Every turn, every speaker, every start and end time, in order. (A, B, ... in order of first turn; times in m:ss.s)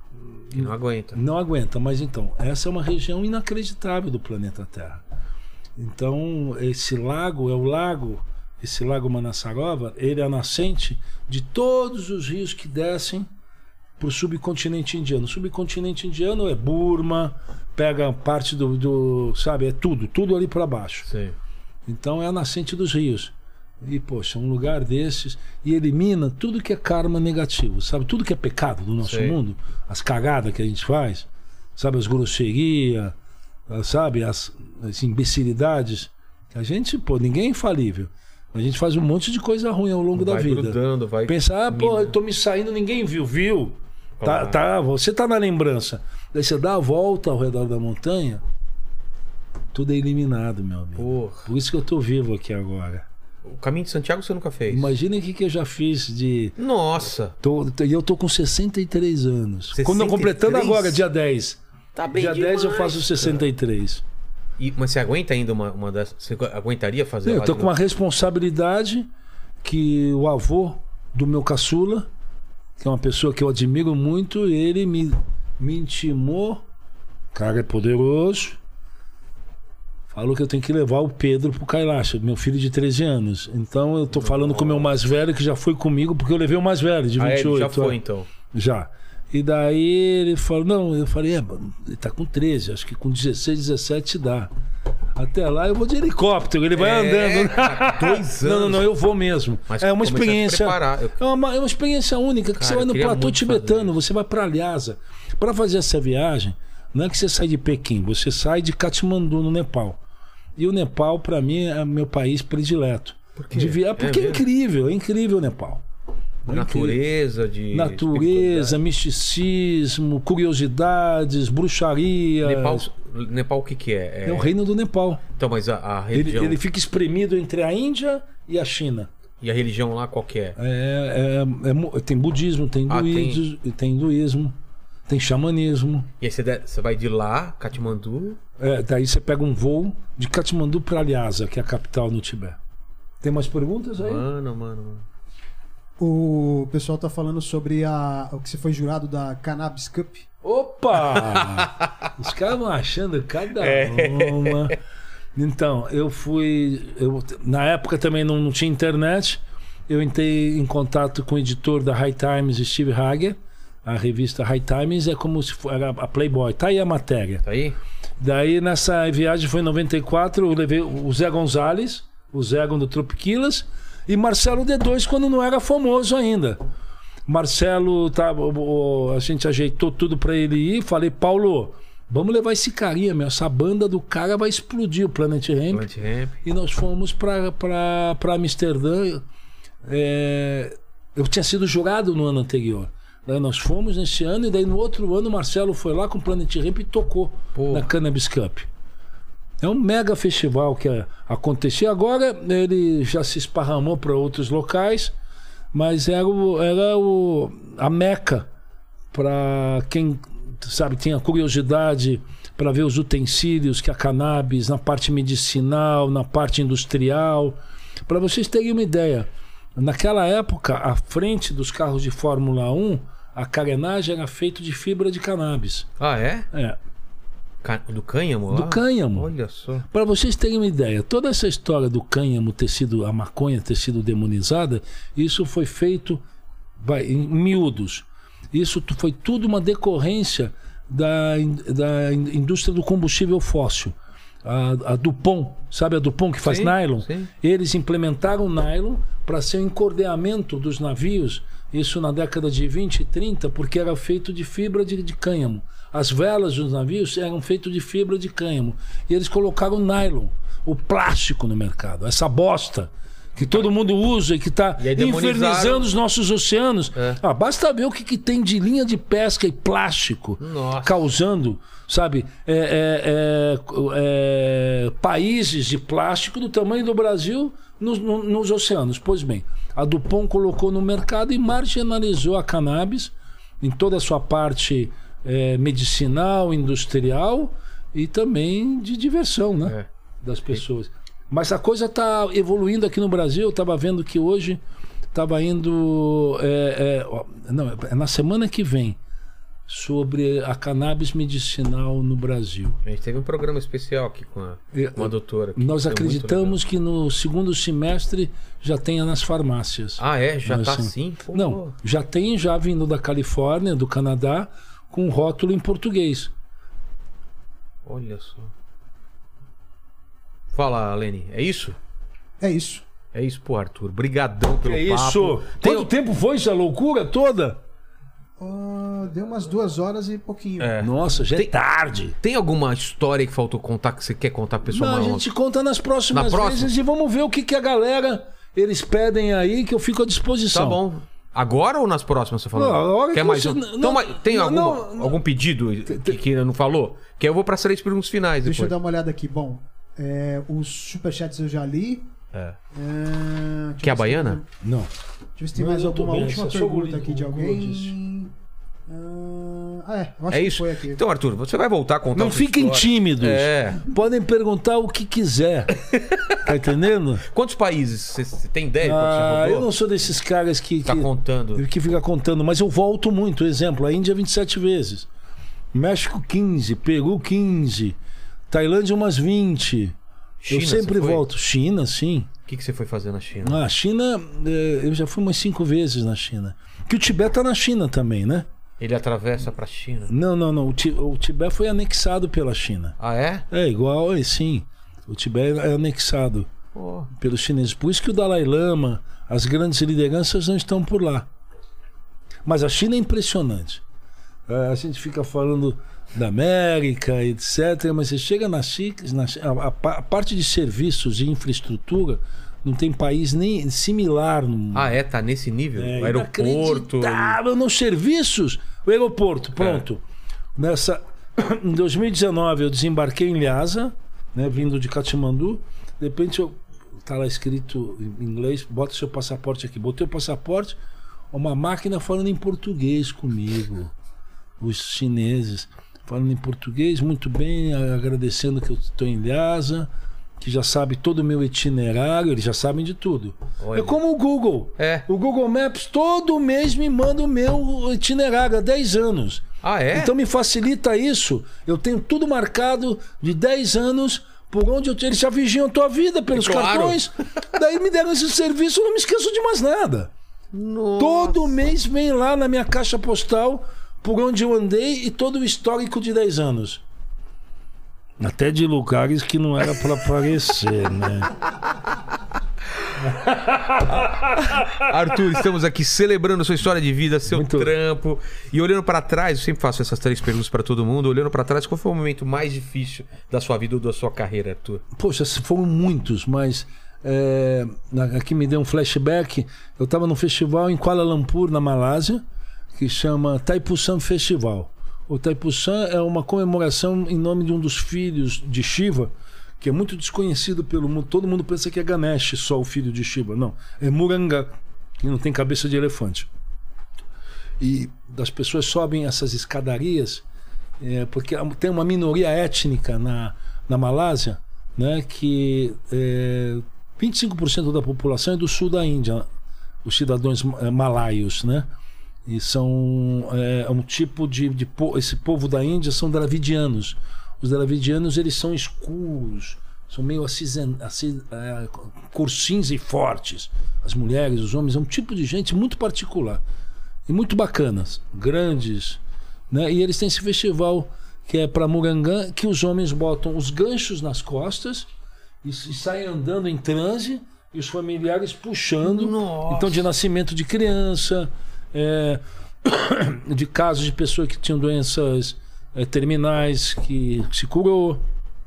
0:00.5-0:05.0 A
0:00.5-0:01.2 B
0:05.8-0:13.3 A
0:14.0-0:21.1 A
0:21.1-0:21.3 B
0:21.9-0:33.1 A
0:29.0-0:29.4 B
0:33.7-0:48.4 A
0:40.1-0:42.2 B
0:44.2-0:44.6 B
0:49.7-0:53.0 A
0:51.0-0:51.5 B
0:53.4-0:54.9 B
0:54.7-0:56.6 A
0:56.6-0:57.4 B
0:57.4-1:01.6 A
0:59.7-1:01.0 B
1:01.9-1:03.5 B
1:02.1-1:04.0 A
1:04.6-1:07.7 B
1:07.2-1:09.1 A
1:09.6-1:12.1 A
1:12.8-1:16.6 A
1:17.3-1:18.6 A
1:20.1-1:28.0 A
1:24.1-1:24.9 B
1:27.2-1:28.3 B
1:28.5-1:34.5 A
1:35.1-1:50.0 A
1:36.8-1:38.8 B
1:39.7-1:41.2 B
1:42.6-1:44.0 B
1:50.6-1:55.8 A
1:53.4-1:54.4 B
1:56.4-1:57.0 A
1:56.5-1:58.8 B
1:57.7-2:02.9 A
2:02.4-2:04.5 B
2:04.2-2:05.2 A
2:05.4-2:06.6 B
2:06.1-2:09.1 A
2:09.4-2:10.6 B
2:10.6-2:14.5 A
2:12.9-2:13.4 B
2:15.1-2:16.1 A
2:16.2-2:18.4 B
2:18.6-2:22.6 A
2:23.2-2:24.2 A
2:24.0-2:25.0 B
2:26.0-2:30.2 C
2:30.4-2:34.8 A
2:31.1-2:31.9 B
2:33.6-2:34.7 B
2:35.4-2:47.4 A
2:47.4-2:47.8 B
2:48.2-2:56.6 A
2:57.3-3:05.9 A
3:05.7-3:06.4 B
3:06.4-3:09.2 A
3:09.8-3:18.7 A
3:17.5-3:17.9 B
3:19.6-3:25.1 A
3:25.7-3:28.5 A
3:29.1-3:45.9 A
3:46.0-3:46.5 B
3:46.5-3:46.8 A
3:47.6-3:49.9 B
3:48.5-3:49.3 A
3:49.9-3:56.2 A
3:56.8-4:54.6 A
4:06.4-4:07.3 B
4:24.8-4:25.9 B
4:26.9-4:27.2 B
4:30.4-4:31.1 B
4:55.1-4:59.0 A
4:59.7-5:02.8 A
5:02.8-5:06.6 B
5:04.7-5:16.3 A
5:10.0-5:11.7 B
5:17.8-5:18.5 B
5:20.5-5:21.8 B
5:22.4-5:22.8 C
5:23.1-5:25.9 B
5:24.6-5:27.6 A
5:28.4-5:30.8 C
5:30.6-5:31.6 B
5:30.8-5:32.2 A
5:32.1-5:35.2 B
5:34.7-5:40.8 A
5:36.1-5:36.7 B
5:40.5-5:48.7 B
5:42.5-5:45.2 A
5:45.9-5:46.2 A
5:48.4-5:52.1 C
5:52.7-5:54.5 C
5:53.8-5:54.4 B
5:54.6-5:54.9 A
5:55.4-5:58.3 C
5:55.5-5:57.9 A
5:58.9-6:01.0 C
6:00.3-6:03.8 B
6:02.1-6:05.8 A
6:05.9-6:06.4 B
6:06.4-6:07.2 A
6:07.2-6:09.7 B
6:08.8-6:15.1 A
6:10.8-6:11.6 B
6:15.7-6:18.0 A
6:18.5-6:19.9 A
6:20.4-6:21.2 B
6:20.5-6:22.3 A
6:22.5-6:23.6 B
6:23.4-6:28.4 A
6:28.8-6:30.1 B
6:30.1-6:33.0 A
6:33.0-6:33.5 B
6:33.5-6:36.5 A
6:36.7-6:37.1 B
6:37.1-6:41.3 A
6:42.4-6:43.8 A
6:44.5-6:54.9 A
6:54.7-6:57.4 B
6:55.8-7:00.0 A
6:59.6-6:59.8 B
7:00.6-7:10.8 A
7:11.3-7:13.9 A
7:14.6-7:19.9 A
7:20.4-7:40.1 A
7:23.6-7:24.0 B
7:24.8-7:25.0 B
7:29.6-7:30.1 B
7:36.3-7:37.0 B
7:40.5-7:41.6 B
7:41.0-7:46.8 A
7:48.2-7:51.3 A
7:53.0-7:54.9 A
7:54.0-8:04.8 B
7:57.3-7:57.7 A
8:05.0-8:12.2 A
8:12.7-8:26.3 A
8:27.6-8:30.2 A
8:30.8-8:39.3 A
8:39.8-8:41.7 A
8:42.3-8:56.4 A
8:57.1-9:04.9 A
9:05.4-9:18.0 A
9:08.8-9:09.9 B